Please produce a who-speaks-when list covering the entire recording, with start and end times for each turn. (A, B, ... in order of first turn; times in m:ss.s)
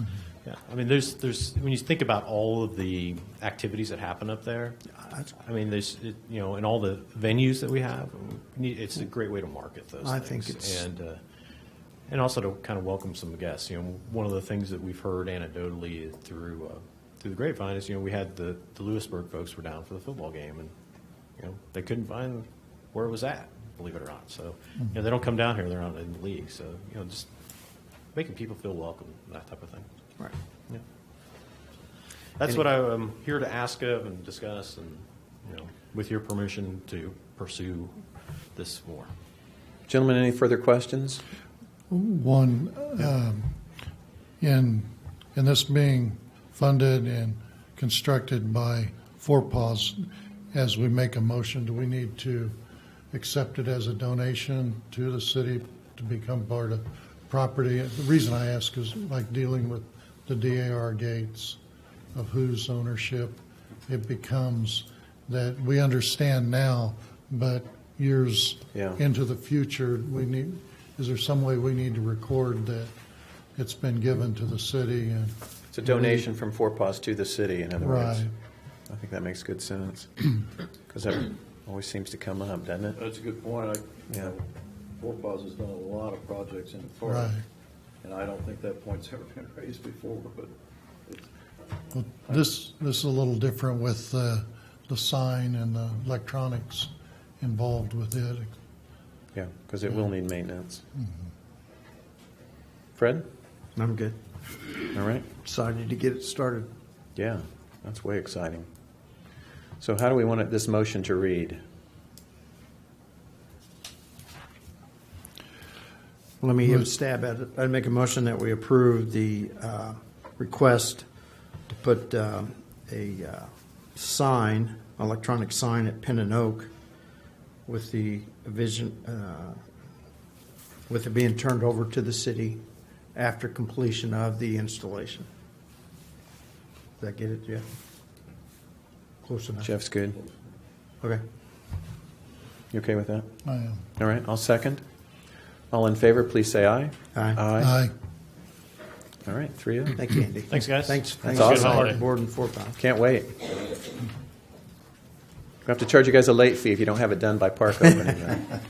0:00.4-0:04.8 A
0:05.0-0:05.3 B
0:05.4-0:11.2 A
0:10.0-0:10.9 B
0:12.1-0:20.7 A
0:21.4-0:27.3 A
0:28.1-0:29.9 A
0:32.4-0:38.0 A
0:38.6-0:39.1 A
0:39.9-0:41.2 C
0:41.9-0:43.6 D
0:44.4-0:52.6 D
0:53.1-1:01.6 D
1:02.1-1:12.9 D
1:08.7-1:09.0 C
1:13.6-1:15.4 D
1:15.7-1:18.3 C
1:17.8-1:18.3 D
1:18.9-1:20.4 C
1:20.9-1:23.0 C
1:23.0-1:24.4 E
1:24.1-1:24.4 C
1:25.0-1:27.3 E
1:27.1-1:27.4 D
1:28.0-1:30.5 E
1:31.9-1:38.5 D
1:39.3-1:40.8 C
1:43.0-1:43.3 C
1:43.8-1:44.2 B
1:44.9-1:45.3 C
1:45.4-1:46.7 B
1:47.2-1:48.7 C
1:49.8-1:51.6 C
1:56.4-2:01.0 B
2:01.7-2:06.7 B
2:07.7-2:09.6 B
2:10.9-2:12.6 B
2:13.2-2:15.3 B
2:17.0-2:17.6 B
2:19.2-2:19.7 B
2:19.6-2:20.2 C
2:22.7-2:23.3 C
2:23.4-2:23.8 D
2:24.0-2:24.8 C
2:25.7-2:27.8 C
2:27.2-2:27.4 B
2:27.6-2:27.9 D
2:29.2-2:30.1 C
2:30.0-2:32.8 B
2:30.5-2:32.0 A
2:31.2-2:32.0 C
2:32.8-2:33.5 C
2:35.6-2:38.5 C